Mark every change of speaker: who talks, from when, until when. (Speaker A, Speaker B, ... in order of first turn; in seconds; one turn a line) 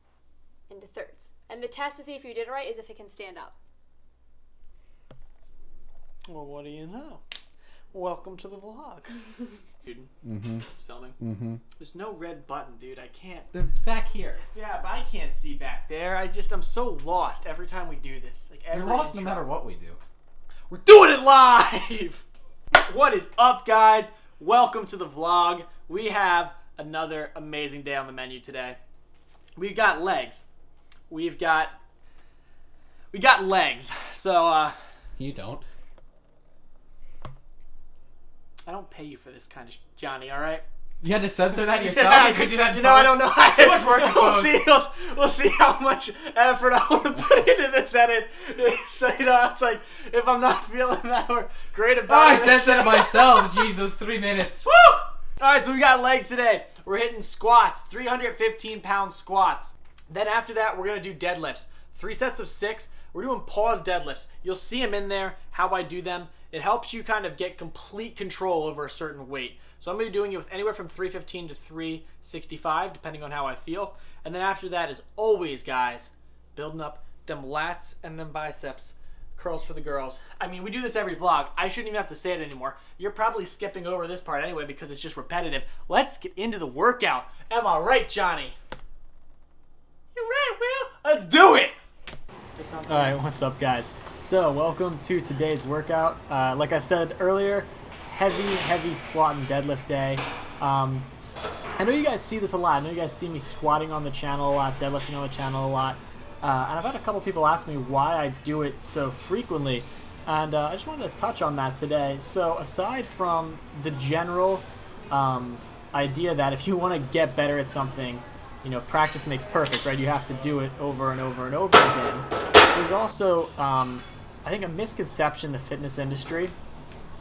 Speaker A: 0.7-3.5
Speaker B: 6.3-7.2
Speaker B: 7.9-11.2
Speaker C: 10.3-10.6
Speaker C: 11.2-11.6
Speaker B: 11.8-13.5
Speaker C: 13.5-14.4
Speaker B: 14.4-19.5
Speaker C: 18.7-20.0
Speaker B: 20.7-28.8
Speaker B: 29.6-30.5
Speaker B: 31.1-31.8
Speaker B: 33.1-34.8
Speaker C: 35.2-35.6
Speaker B: 38.7-40.6
Speaker C: 41.0-44.6
Speaker B: 41.5-53.6
Speaker C: 52.1-55.1
Speaker B: 55.4-88.6
Speaker B: 90.2-91.7
Speaker B: 92.6-101.1
Speaker B: 101.8-126.5